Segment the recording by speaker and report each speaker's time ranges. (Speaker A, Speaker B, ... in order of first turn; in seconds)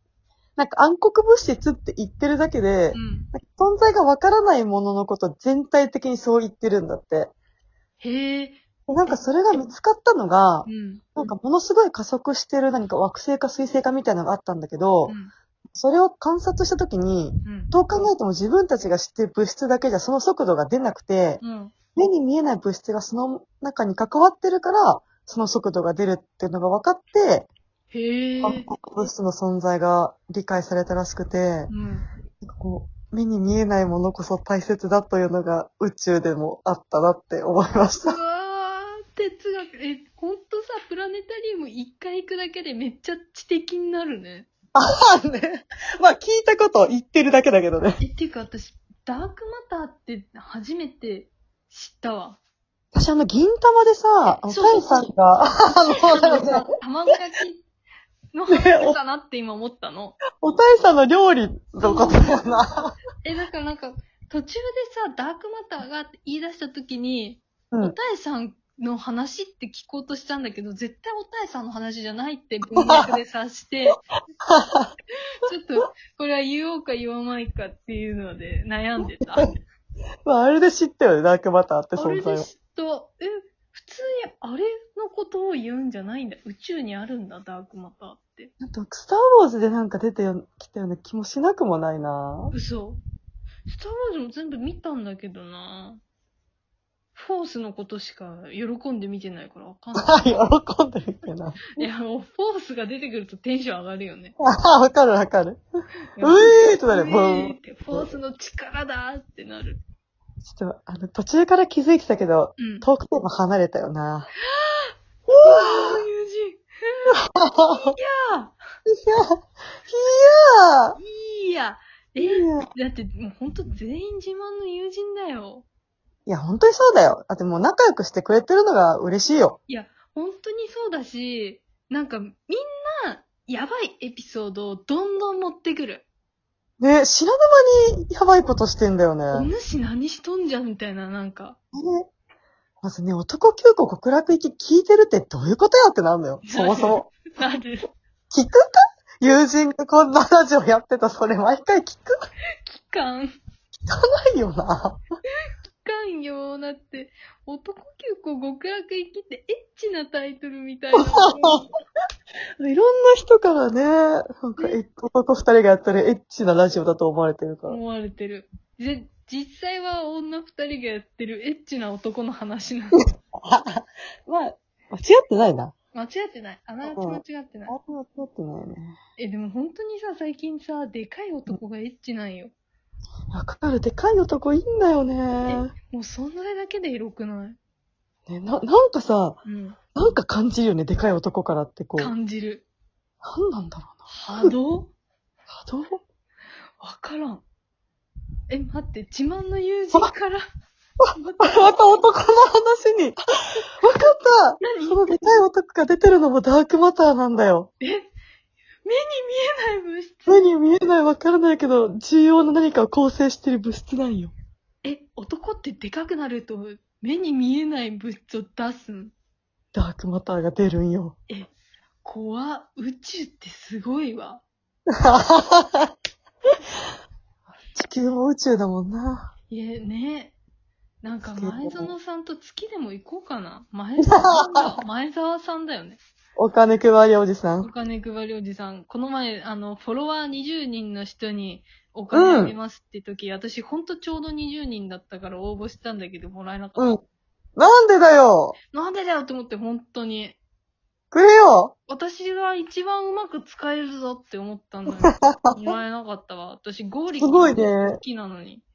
Speaker A: 0.6-7.3, 8.9-15.2, 15.7-21.4, 21.9-27.5, 28.4-31.7, 32.4-38.2, 44.7-48.0, 52.9-56.7, 58.5-59.0, 60.4-62.9, 72.8-73.2, 74.4-74.9, 80.2-82.5, 88.6-92.5, 100.0-101.9, 104.4-105.6, 106.2-108.2, 110.4-114.3, 115.3-116.0, 117.3-117.9, 118.9-121.0, 122.2-122.7, 126.2-129.6, 136.8-139.5, 141.7-142.1, 142.8-147.1, 148.3-152.2, 153.8-155.0, 160.9-161.6, 162.6-167.8, 172.9-175.7, 176.8-179.0, 183.3-185.7, 188.3-189.4, 189.9-192.1, 193.2-194.5, 195.5-196.0, 201.0-203.2, 203.8-207.7, 210.3-214.3, 219.7-221.2, 224.9-225.9, 227.7-229.3, 231.2-231.9, 234.0-234.8, 236.4-237.7, 242.1-242.5, 246.8-247.0, 247.6-248.6, 251.1-251.7, 255.0-255.7, 257.2-258.0
Speaker B: 2.9-3.3, 8.0-9.2, 10.6-11.3, 15.1-15.3, 17.4-17.7, 21.4-21.7, 27.9-28.7, 31.7-32.0, 38.0-44.5, 48.0-52.4, 54.2-55.0, 55.9-57.6, 58.3-60.2, 61.8-62.6, 63.2-74.0, 75.3-79.5, 82.0-88.5, 92.5-93.0, 93.7-96.0, 97.1-100.4, 101.8-104.3, 106.2-109.8, 112.6-112.8, 114.4-118.6, 121.0-125.6, 129.7-136.0, 139.3-141.6, 146.4-147.9, 152.7-153.3, 155.8-161.7, 167.7-173.0, 175.9-177.7, 179.2-182.5, 185.4-187.6, 189.4-189.8, 192.0-192.6, 194.1-194.9, 196.8-197.4, 198.5-200.4, 201.2-201.8, 204.6-205.2, 207.8-208.1, 208.8-210.4, 214.8-219.1, 222.0-224.4, 229.5-230.3, 231.0-236.0, 237.6-247.0, 248.7-250.4, 251.9-258.6